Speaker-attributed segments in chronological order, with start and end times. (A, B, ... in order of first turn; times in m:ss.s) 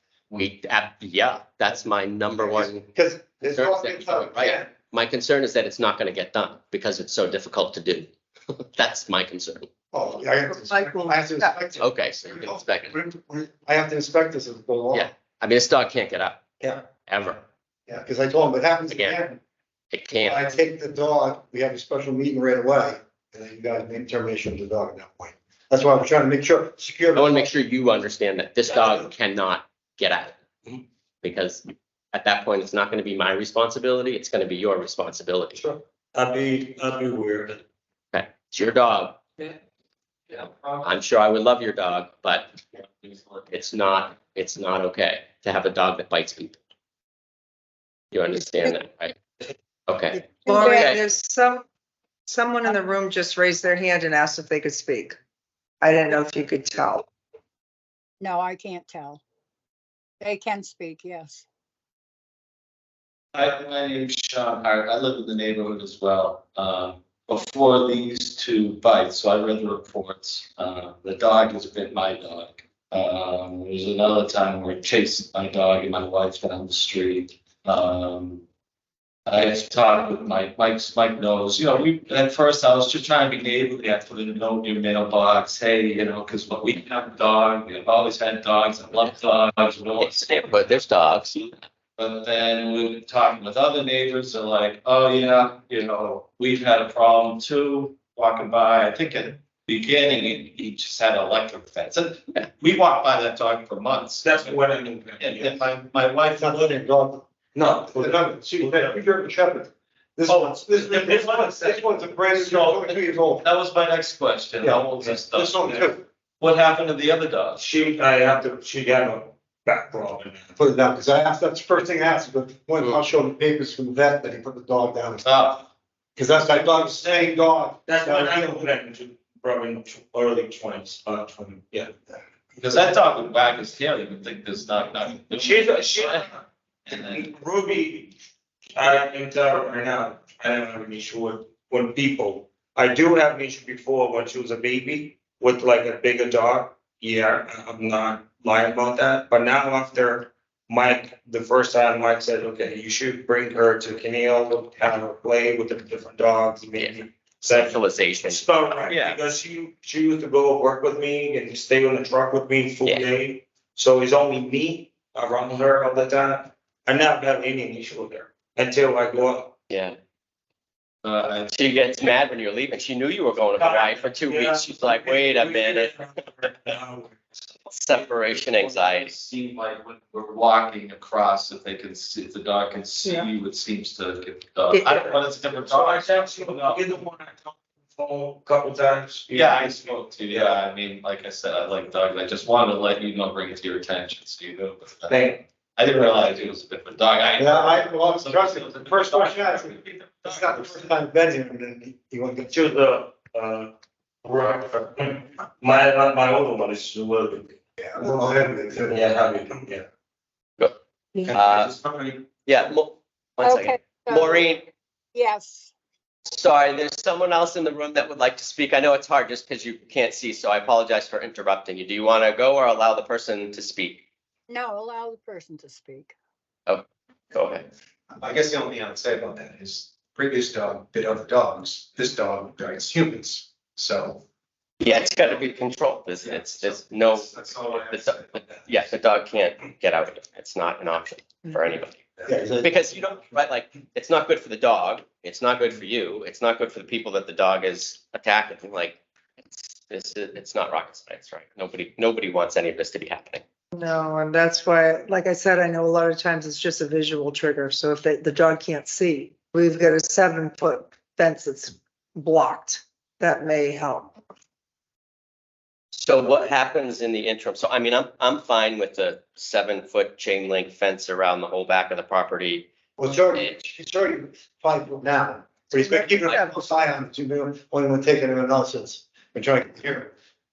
0:00.3-0:02.9 A
0:02.4-0:04.7 B
0:03.5-0:09.7 A
0:09.9-0:15.1 B
0:10.5-0:11.6 C
0:11.8-0:13.0 A
0:14.9-0:16.4 A
0:17.1-0:17.4 A
0:17.9-0:19.4 B
0:18.9-0:19.2 A
0:19.9-0:20.5 A
0:20.2-0:27.5 B
0:27.1-0:30.4 A
0:28.7-0:29.1 B
0:31.2-0:35.6 A
0:36.1-0:37.6 D
0:38.1-0:39.2 A
0:40.3-0:40.9 E
0:40.8-0:42.5 A
0:42.8-0:43.5 E
0:43.5-0:46.6 A
0:48.1-0:49.2 A
0:49.9-0:51.0 A
0:50.2-0:51.6 C
0:50.4-0:51.0 F
0:52.3-0:55.2 C
0:55.8-0:57.1 C
0:58.2-0:59.2 F
1:00.2-1:01.4 F
1:03.3-1:18.4 E
1:19.3-1:30.2 E
1:30.0-1:31.5 A
1:32.0-1:44.5 E
1:44.2-1:45.6 D
1:45.2-1:46.8 E
1:46.3-1:47.2 B
1:47.6-1:49.0 D
1:47.9-1:53.5 B
1:50.3-1:57.6 E
1:51.0-1:51.6 D
1:54.6-1:56.0 B
1:57.6-2:00.5 D
2:00.6-2:05.3 B
2:05.2-2:05.6 E
2:06.2-2:08.7 B
2:07.9-2:11.9 D
2:12.6-2:16.3 E
2:15.3-2:16.4 D
2:16.9-2:17.3 E
2:17.1-2:18.1 D
2:18.8-2:49.6 D
2:36.8-2:39.2 A
2:49.7-2:50.0 A
2:51.0-2:51.7 E
2:51.5-2:56.0 A
2:53.6-2:57.2 D
2:57.7-2:59.1 A
2:58.5-3:06.8 E
3:04.7-3:05.1 C
3:05.1-3:10.6 D
3:09.3-3:15.2 E
3:15.1-3:15.4 D
3:15.8-3:20.8 E
3:17.4-3:22.6 B
3:22.5-3:23.7 D
3:24.2-3:27.6 D
3:27.8-3:29.0 B
3:28.9-3:29.8 D
3:31.3-3:32.3 D
3:31.3-3:31.7 A
3:32.4-3:34.7 A
3:33.4-3:34.5 F
3:35.1-3:35.7 F
3:36.3-3:44.0 A
3:44.5-3:46.1 F
3:46.7-3:47.7 A
3:48.1-3:54.2 G
3:54.8-4:02.0 A
3:56.2-3:58.6 G
4:02.3-4:02.7 B
4:02.6-4:09.0 A
4:09.5-4:13.4 A
4:13.7-4:24.1 C
4:25.9-4:32.7 A
4:33.0-4:40.1 B
4:33.3-4:33.6 A
4:35.7-4:36.6 C